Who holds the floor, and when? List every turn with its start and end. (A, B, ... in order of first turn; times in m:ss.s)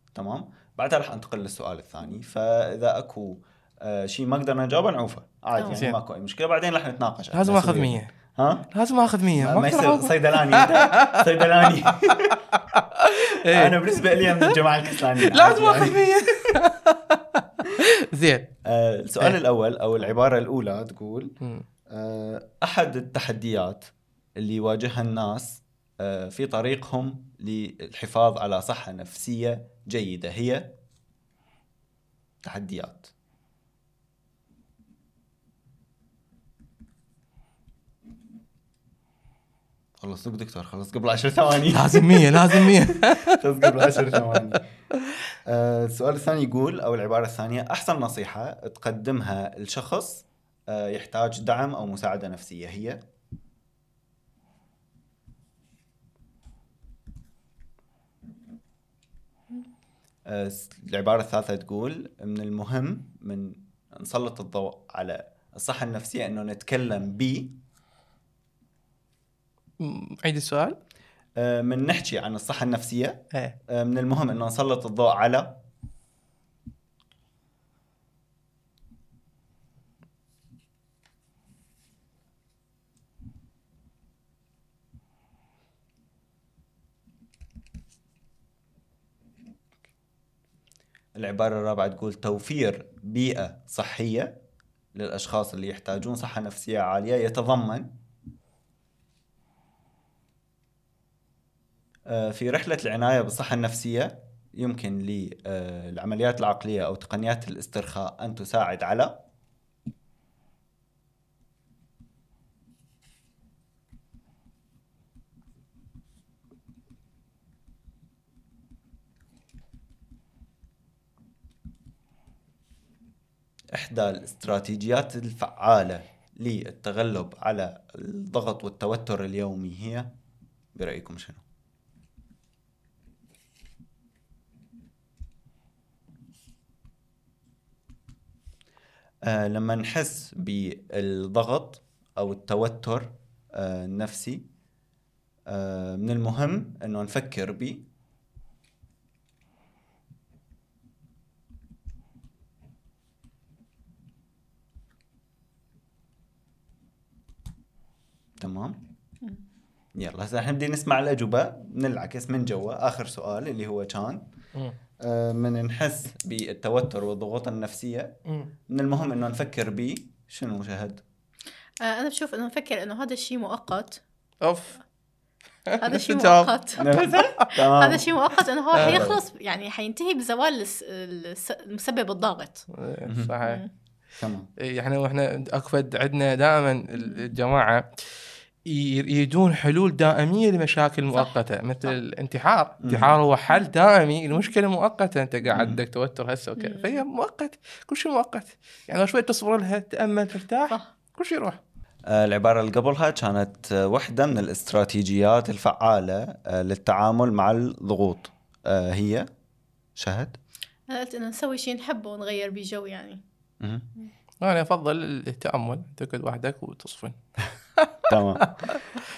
0:00.1-0:08.7 A
0:05.6-0:05.8 B
0:05.6-0:06.0 C
0:07.3-0:08.1 C
0:08.7-0:11.2 C
0:09.4-0:12.4 A
0:11.9-0:14.6 C
0:13.5-0:16.6 A
0:15.2-0:18.5 C
0:18.6-0:21.3 A
0:21.9-0:30.7 A
0:32.4-0:33.1 A
0:40.0-0:44.6 A
0:41.7-0:44.6 C
0:45.4-0:53.0 A
1:00.3-1:07.6 A
1:09.8-1:10.8 C
1:11.4-1:15.6 A
1:31.2-1:34.4 A
1:34.9-1:37.9 A
1:42.1-1:49.2 A
2:03.7-2:10.1 A
2:10.7-2:11.4 A
2:19.2-2:24.5 A
2:25.5-2:27.9 A
2:38.4-2:38.8 A
2:40.0-2:44.3 A
2:45.0-2:48.1 A
2:48.7-2:51.0 A
2:51.8-2:54.0 B
2:54.4-2:54.8 C
2:55.7-2:57.0 C
2:55.8-3:02.7 B
2:56.8-2:58.2 A
2:58.8-2:59.1 C
2:58.8-2:59.2 A
3:02.8-3:03.6 C
3:03.4-3:03.7 B
3:04.2-3:04.5 A
3:04.6-3:07.8 C
3:07.0-3:07.2 B
3:08.7-3:21.6 C
3:11.1-3:12.0 B
3:12.8-3:13.2 A
3:15.5-3:15.8 A
3:16.6-3:17.0 B
3:22.1-3:29.3 A
3:30.0-3:30.4 A
3:30.9-3:33.2 B
3:33.6-3:33.9 A
3:34.4-3:37.2 C
3:37.8-3:38.8 C
3:38.1-3:38.5 A